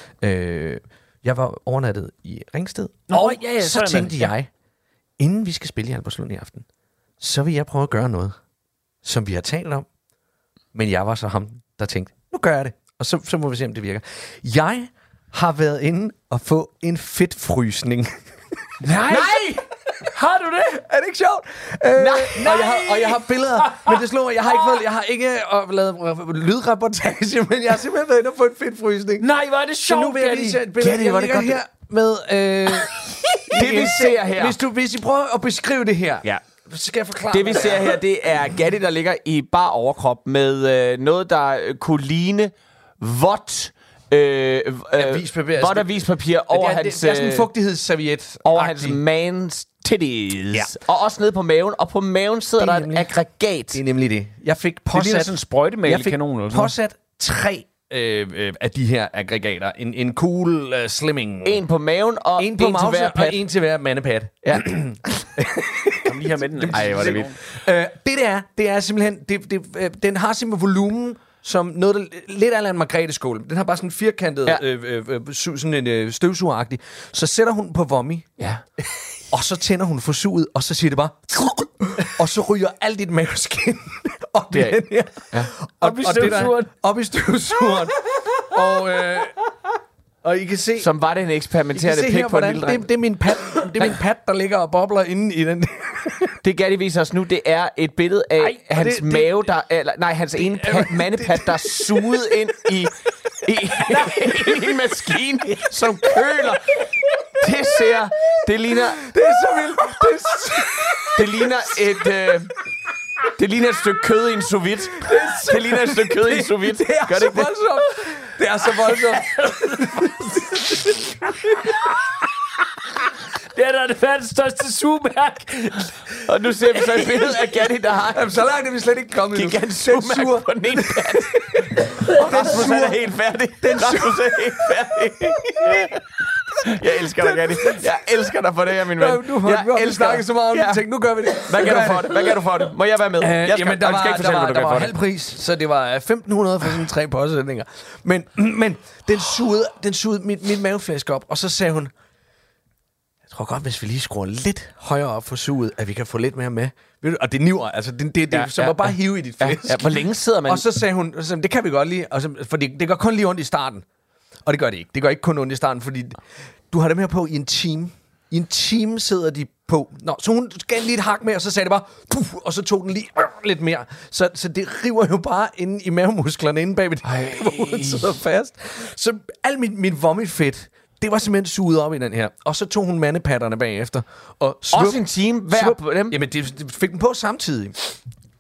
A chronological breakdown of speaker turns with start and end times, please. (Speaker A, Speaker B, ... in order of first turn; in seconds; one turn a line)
Speaker A: 0.2-4.5
Speaker B: 3.1-4.3
Speaker A: 5.2-6.7
Speaker A: 7.2-8.4
Speaker A: 9.0-9.9
Speaker A: 10.7-18.2
Speaker B: 18.8-20.8
Speaker C: 19.1-19.6
Speaker A: 20.8-29.3
Speaker C: 22.0-23.2
Speaker B: 29.2-30.6
Speaker A: 29.8-38.0
Speaker C: 30.8-31.6
Speaker C: 33.5-34.6
Speaker C: 37.3-47.5
Speaker A: 45.0-49.0
Speaker C: 48.5-53.8
Speaker A: 52.6-53.1
Speaker A: 53.7-61.6
Speaker B: 54.9-56.7
Speaker C: 61.4-63.4
Speaker A: 62.4-78.3
Speaker B: 66.0-67.3
Speaker C: 66.7-67.3
Speaker A: 79.3-89.4
Speaker C: 84.5-85.5
Speaker B: 85.8-86.7
Speaker A: 90.2-90.9
Speaker C: 90.8-92.9
Speaker A: 91.8-96.3
Speaker C: 96.4-106.9
Speaker A: 98.7-99.3
Speaker A: 100.4-102.4
Speaker A: 104.0-104.3
Speaker C: 107.4-109.0
Speaker A: 109.0-111.7
Speaker C: 111.2-112.5
Speaker C: 113.4-117.6
Speaker A: 115.0-121.4
Speaker B: 119.3-119.9
Speaker B: 123.5-125.9
Speaker C: 126.2-128.4
Speaker A: 128.1-133.0
Speaker C: 129.3-136.0
Speaker A: 133.6-134.7
Speaker C: 136.6-140.8
Speaker A: 137.2-137.8
Speaker A: 138.9-142.5
Speaker C: 141.4-144.9
Speaker A: 143.2-151.9
Speaker A: 153.3-163.8
Speaker C: 158.3-160.7
Speaker A: 164.5-166.2
Speaker A: 166.7-188.0
Speaker C: 177.0-178.1
Speaker C: 184.7-186.2